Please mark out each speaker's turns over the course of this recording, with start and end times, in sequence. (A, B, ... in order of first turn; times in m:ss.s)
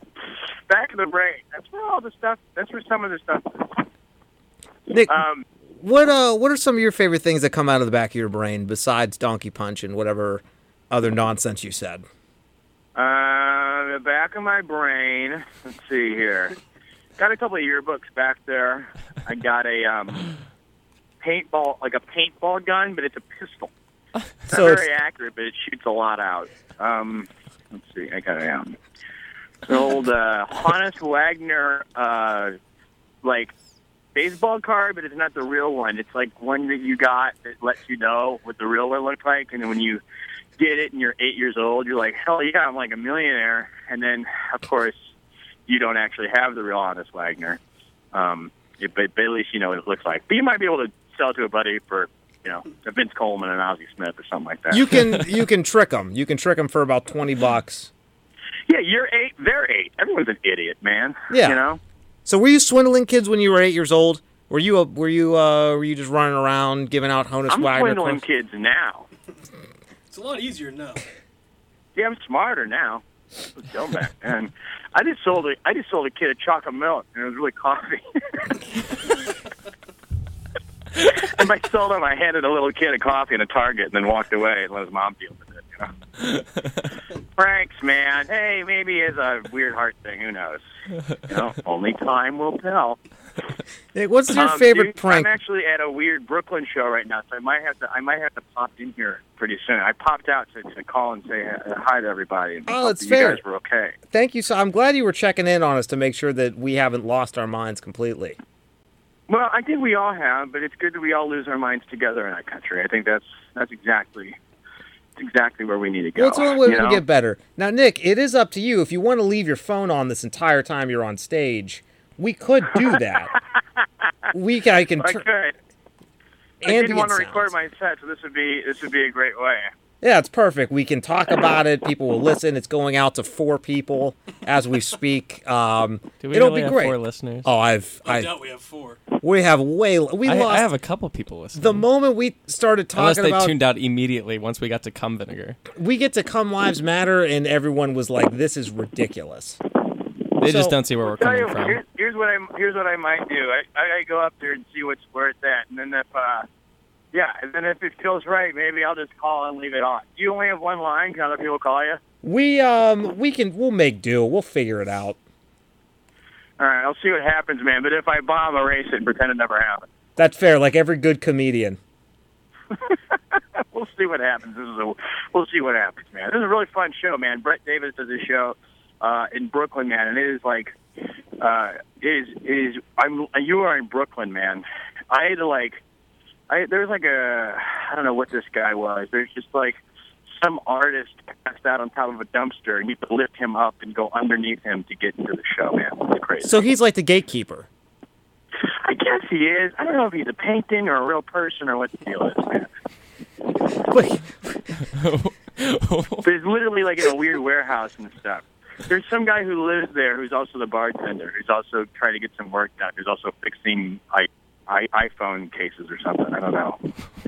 0:00.7-0:03.9 A
0:04.9-0:05.2 B
0:05.1-0:05.5 A
0:05.8-0:12.0 B
0:13.0-0:16.6 A
0:17.2-0:20.3 A
0:21.2-0:23.7 A
0:24.5-0:28.8 A
0:24.5-0:24.8 B
0:29.7-0:32.6 A
0:33.2-0:33.5 A
0:34.2-0:40.0 A
0:40.6-0:45.1 A
0:45.7-0:47.6 A
0:48.1-0:54.9 A
0:54.7-0:57.9 B
0:58.7-1:01.8 A
1:01.3-1:01.6 B
1:02.3-1:08.2 B
1:07.5-1:09.1 A
1:10.1-1:11.0 C
1:12.0-1:13.0 A
1:13.5-1:18.6 A
1:21.0-1:25.9 A
1:27.4-1:30.6 A
1:31.2-1:33.0 A
1:33.9-1:35.3 B
1:34.3-1:44.0 A
1:42.7-1:43.4 B
1:44.1-1:48.4 B
1:49.3-1:54.4 A
1:55.2-1:57.0 A
1:56.2-2:03.3 B
2:02.9-2:03.4 A
2:04.3-2:05.2 B
2:05.0-2:05.6 A
2:06.6-2:07.5 B
2:06.6-2:09.7 A
2:10.0-2:18.3 B
2:16.2-2:17.5 D
2:18.0-2:19.0 C
2:19.2-2:20.7 B
2:20.2-2:21.8 D
2:21.6-2:23.5 B
2:23.0-2:25.6 D
2:25.7-2:29.6 B
2:30.4-2:31.8 D
2:30.4-2:30.7 B
2:31.0-2:36.5 A
2:37.1-2:42.0 A
2:42.2-2:45.2 B
2:46.6-2:49.9 A
2:50.2-2:51.8 B
2:52.7-3:00.8 A
3:01.4-3:05.8 A
3:06.5-3:16.6 A
3:16.4-3:17.7 B
3:18.7-3:22.7 A
3:23.9-3:24.3 B
3:24.8-3:26.3 D
3:26.2-3:36.8 A